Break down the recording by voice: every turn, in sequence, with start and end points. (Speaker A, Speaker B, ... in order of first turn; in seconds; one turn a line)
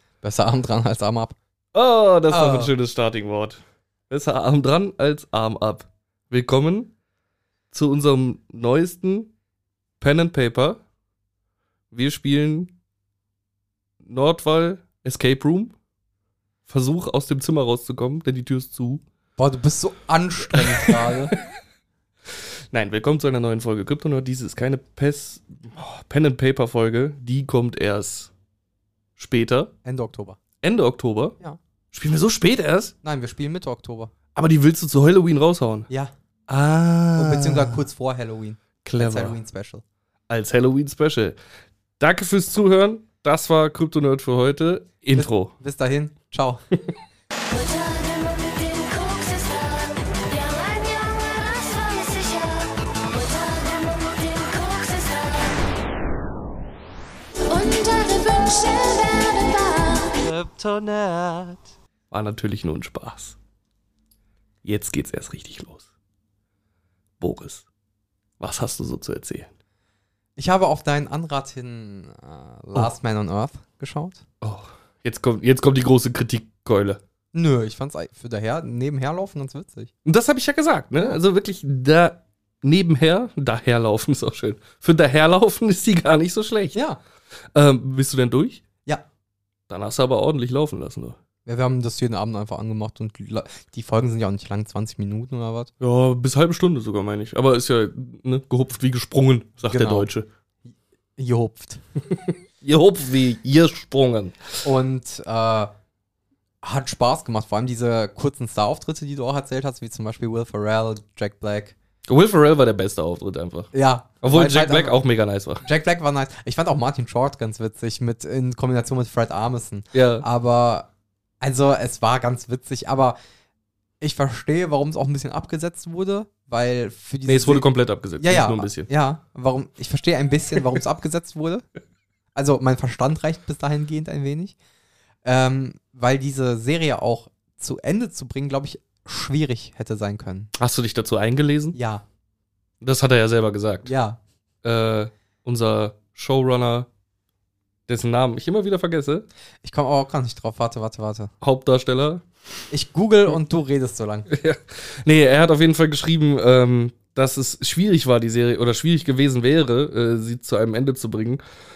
Speaker A: 0.2-1.4
Speaker B: 1.7-6.9
Speaker A: 2.3-2.7
Speaker B: 7.7-9.3
Speaker B: 10.0-10.8
Speaker B: 11.9-12.7
Speaker B: 14.0-15.7
Speaker B: 16.7-19.0
Speaker A: 19.4-21.3
Speaker B: 20.5-21.4
Speaker B: 22.7-28.3
Speaker B: 29.2-29.7
Speaker A: 29.8-30.4
Speaker B: 30.6-31.4
Speaker B: 31.9-32.9
Speaker A: 33.0-34.1
Speaker B: 34.3-35.9
Speaker B: 36.5-37.8
Speaker A: 37.1-39.8
Speaker B: 38.8-39.4
Speaker B: 40.3-41.4
Speaker B: 42.0-45.5
Speaker A: 45.1-46.6
Speaker C: 47.5-55.6
Speaker C: 57.5-60.2
Speaker B: 60.2-63.4
Speaker B: 64.6-65.8
Speaker B: 67.2-67.7
Speaker B: 68.4-69.5
Speaker A: 70.4-74.2
Speaker B: 74.4-77.0
Speaker A: 77.3-79.9
Speaker B: 80.0-86.8
Speaker A: 86.7-87.0
Speaker B: 87.5-88.6
Speaker B: 89.7-91.2
Speaker A: 91.5-95.7
Speaker B: 95.8-100.3
Speaker A: 99.7-100.1
Speaker A: 101.2-101.8
Speaker B: 102.2-104.5
Speaker A: 104.6-105.7
Speaker A: 106.6-111.8
Speaker B: 112.1-113.7
Speaker A: 113.7-115.0
Speaker B: 114.2-115.7
Speaker A: 115.6-120.9
Speaker B: 119.9-120.2
Speaker A: 121.4-123.2
Speaker A: 124.0-127.7
Speaker B: 127.2-128.9
Speaker A: 128.2-131.6
Speaker A: 132.3-134.6
Speaker A: 135.2-140.5
Speaker B: 140.6-141.8
Speaker A: 141.7-142.0
Speaker B: 142.8-143.9
Speaker A: 143.8-144.2
Speaker B: 144.6-146.9
Speaker B: 147.9-149.2
Speaker A: 149.6-151.3
Speaker B: 151.4-152.2
Speaker A: 152.7-154.3
Speaker B: 154.3-161.4